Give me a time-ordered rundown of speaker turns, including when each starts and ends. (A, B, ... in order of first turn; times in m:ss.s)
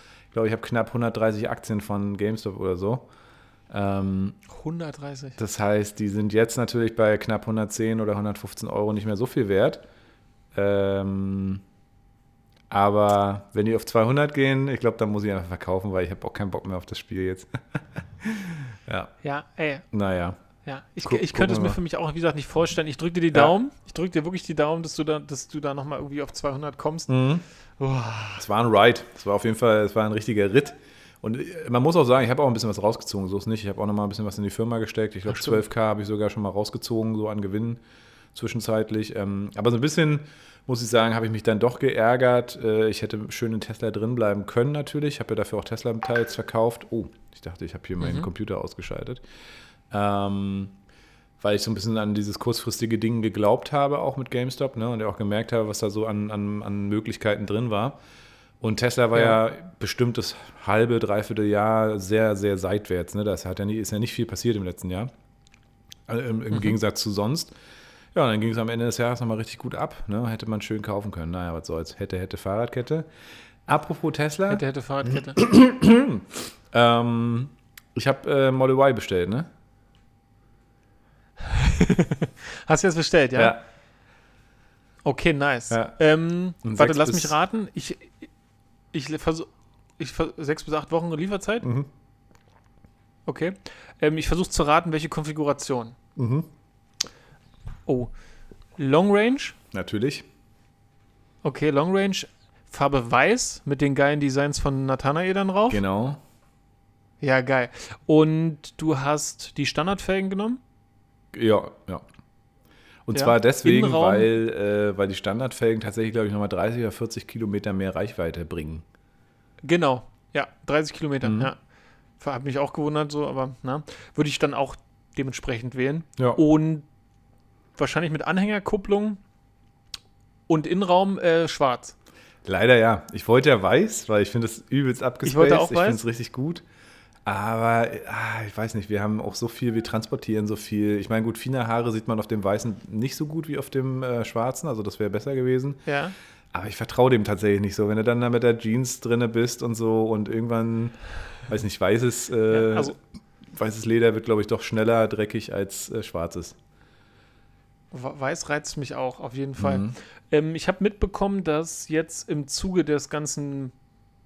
0:00.3-0:03.0 A
0:03.7-0:04.4 A
0:04.5-0:05.4 B
0:05.4-0:09.8 A
0:10.5-0:11.6 A
0:12.7-0:19.1 A
0:19.2-0:19.8 B
0:19.9-0:20.4 A
0:20.6-0:27.1 B
0:21.0-0:21.8 A
0:27.1-0:27.4 A
0:27.8-0:28.4 B
0:28.4-0:37.8 A
0:35.3-0:35.6 B
0:38.3-0:49.2 A
0:48.0-0:48.3 B
0:49.9-0:50.7 A
0:51.4-0:58.0 A
0:58.6-1:05.1 A
1:06.1-1:07.5 A
1:08.1-1:13.1 A
1:13.6-1:19.5 A
1:14.5-1:15.4 B
1:21.4-1:23.6 B
1:23.4-1:23.6 A
1:25.0-1:28.3 B
1:25.7-1:25.9 A
1:26.6-1:27.3 A
1:28.9-1:31.7 B
1:31.6-1:31.9 A
1:33.2-1:36.0 B
1:36.2-1:36.5 A
1:38.8-1:39.6 B
1:39.7-1:40.2 A
1:41.4-1:45.8 B
1:45.7-1:46.2 A
1:47.2-1:50.6 B
1:51.3-1:52.0 A
1:53.0-1:58.8 A
1:53.1-1:54.3 B
1:59.6-2:01.6 B
2:01.2-2:01.5 A
2:02.2-2:06.9 B
2:07.8-2:09.2 B
2:10.5-2:11.9 B
2:12.4-2:16.6 A
2:15.2-2:16.0 B
2:17.2-2:25.8 A
2:25.8-2:26.1 B
2:26.5-2:33.0 A
2:32.5-2:32.9 B
2:33.5-2:36.6 A
2:37.9-2:43.7 B
2:39.6-2:40.0 A